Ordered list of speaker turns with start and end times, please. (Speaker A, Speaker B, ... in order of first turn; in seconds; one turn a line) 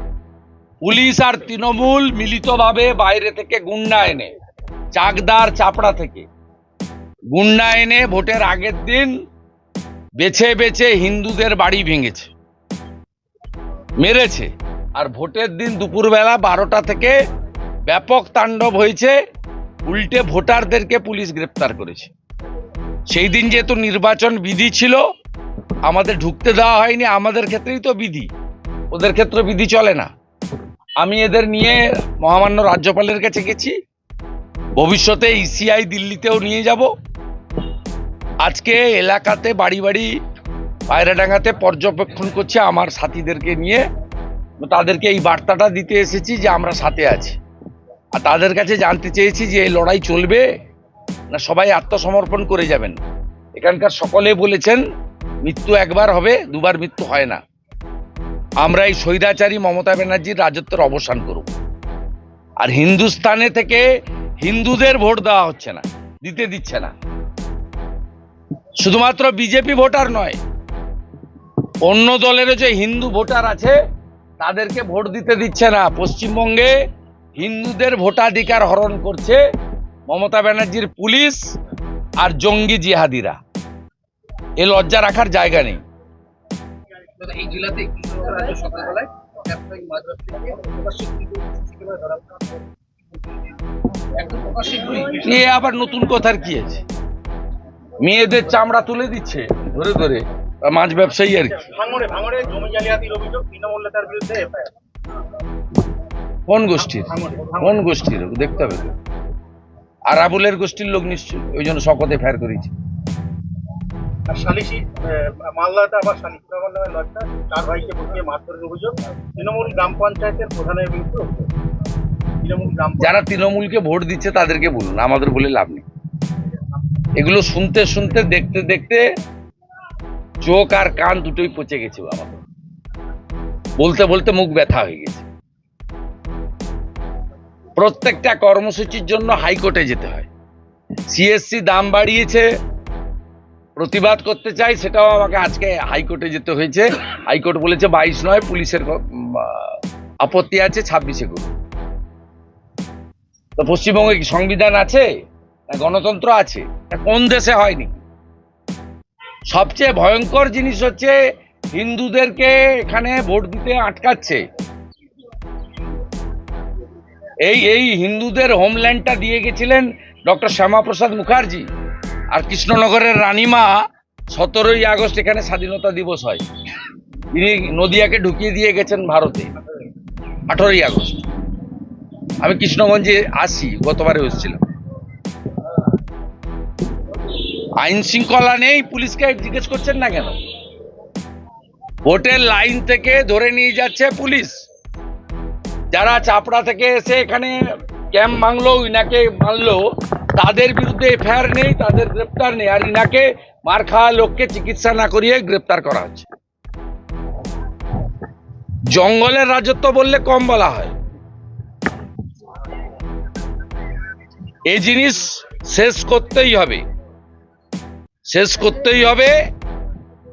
Speaker A: 0.8-4.3
Speaker A: 4.9-6.2
Speaker A: 7.3-9.2
Speaker A: 10.2-12.3
Speaker A: 14.0-17.2
Speaker A: 17.9-19.2
Speaker A: 19.9-22.1
Speaker A: 23.1-25.0
Speaker A: 25.9-28.3
Speaker A: 28.9-30.1
Speaker A: 31.0-33.7
Speaker A: 34.8-36.9
Speaker A: 38.4-40.1
Speaker A: 40.9-43.8
Speaker A: 44.6-47.4
Speaker A: 48.1-50.5
Speaker A: 51.3-53.0
Speaker A: 53.5-54.8
Speaker A: 55.4-57.4
Speaker A: 58.6-61.5
Speaker A: 62.6-63.9
Speaker A: 64.4-66.9
Speaker A: 68.8-70.4
Speaker A: 71.8-73.7
Speaker A: 74.4-76.8
Speaker A: 77.4-79.4
Speaker A: 80.1-81.5
Speaker A: 82.2-83.4
Speaker A: 84.6-85.8
Speaker B: 87.2-92.2
Speaker B: 94.1-95.4
Speaker A: 95.2-96.8
Speaker A: 98.0-101.7
Speaker C: 101.6-104.7
Speaker A: 106.5-108.9
Speaker C: 107.0-107.8
Speaker A: 110.1-112.7
Speaker C: 114.3-121.5
Speaker C: 122.3-123.2
Speaker A: 123.0-125.8
Speaker A: 127.2-129.0
Speaker A: 130.4-132.4
Speaker A: 133.8-135.2
Speaker A: 137.8-140.3
Speaker A: 141.1-142.5
Speaker A: 143.8-151.5
Speaker A: 153.6-155.1
Speaker A: 155.7-158.0
Speaker A: 159.5-161.2
Speaker A: 161.7-164.4
Speaker A: 167.4-171.7
Speaker A: 172.3-176.4
Speaker A: 177.3-179.5
Speaker A: 180.5-181.2
Speaker A: 182.4-184.6
Speaker A: 187.8-190.3
Speaker A: 192.1-194.5
Speaker A: 195.9-197.6
Speaker A: 198.1-199.8
Speaker A: 200.3-206.3
Speaker A: 208.9-210.9
Speaker A: 214.7-216.8
Speaker A: 218.3-219.3